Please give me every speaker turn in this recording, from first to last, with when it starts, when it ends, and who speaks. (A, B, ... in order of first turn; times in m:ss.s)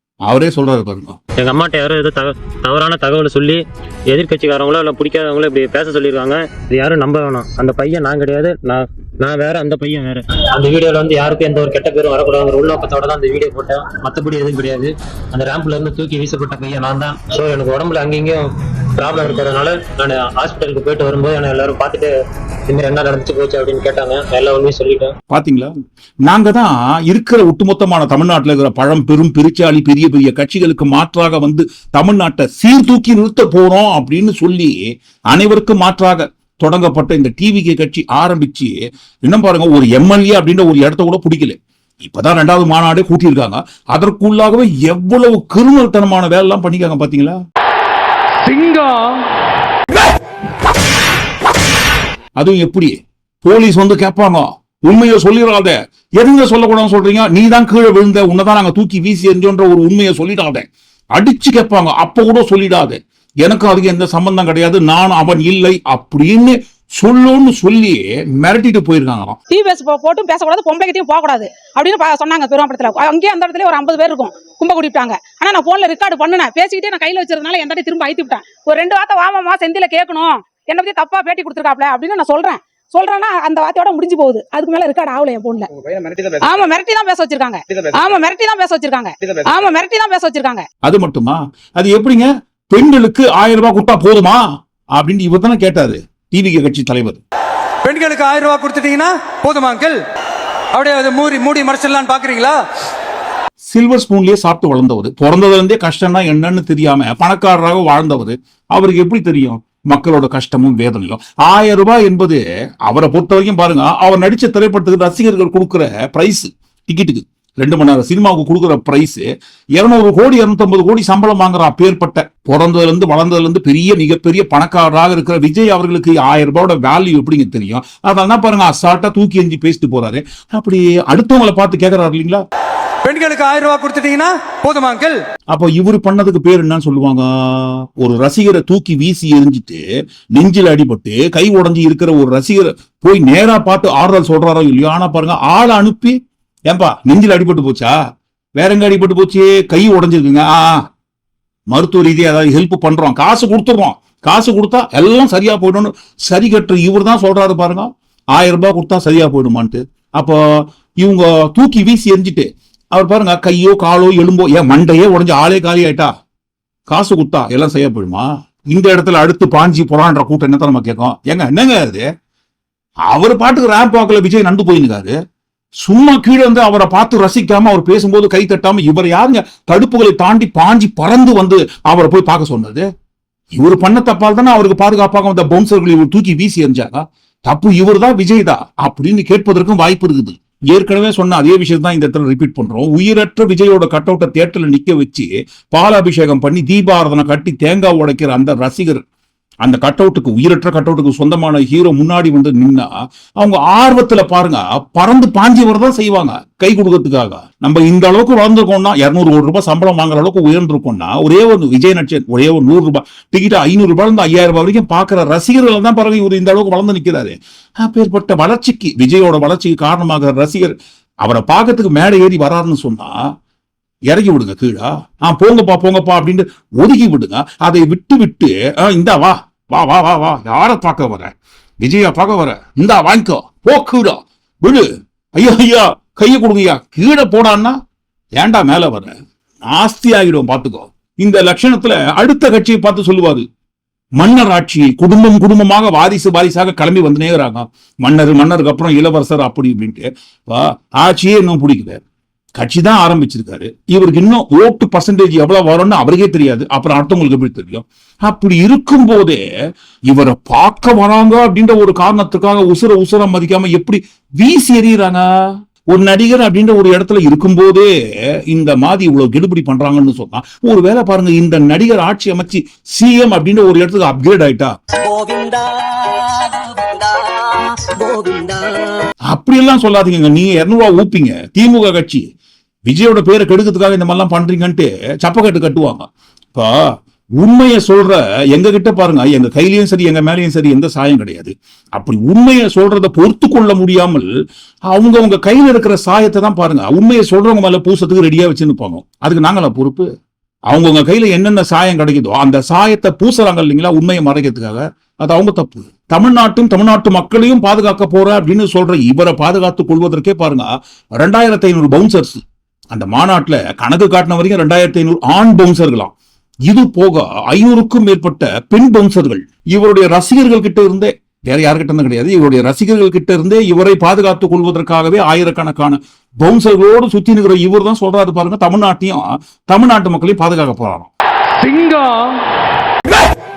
0:00.3-0:01.2 A
0:01.4-0:22.1 B
0:22.7-0:25.1 B
0:25.3-0:25.7 A
0:26.3-0:34.8 A
0:35.3-0:47.4 A
0:48.4-0:49.2 C
0:52.4-1:00.6 A
1:01.2-1:09.4 A
1:09.5-1:25.7 D
1:26.4-1:30.6 D
1:30.8-1:34.4 A
1:35.0-1:37.2 A
1:37.8-1:40.0 C
1:40.7-1:42.6 C
1:43.7-1:59.2 A
1:59.8-2:12.4 A
2:13.0-2:15.2 C
2:15.5-2:19.8 A
2:20.3-2:26.2 A
2:26.7-2:27.9 A
2:28.6-2:30.8 A
2:31.7-2:46.1 A
2:46.9-2:52.0 A
2:53.1-2:55.1 A
2:55.8-3:02.8 A
3:03.6-3:19.0 A
3:19.6-3:43.1 A
3:44.1-3:57.7 A
3:58.4-3:59.1 A
3:59.7-4:03.4 A
4:04.2-4:12.0 A
4:12.6-4:19.4 A
4:20.1-4:25.2 A
4:25.9-4:27.9 A
4:28.5-4:34.7 A
4:35.0-4:39.1 E
4:39.3-4:42.3 A
4:42.9-4:46.7 A
4:47.4-4:54.3 A
4:54.9-5:00.1 A
5:00.7-5:16.1 A
5:16.7-5:31.1 A
5:31.6-5:32.4 C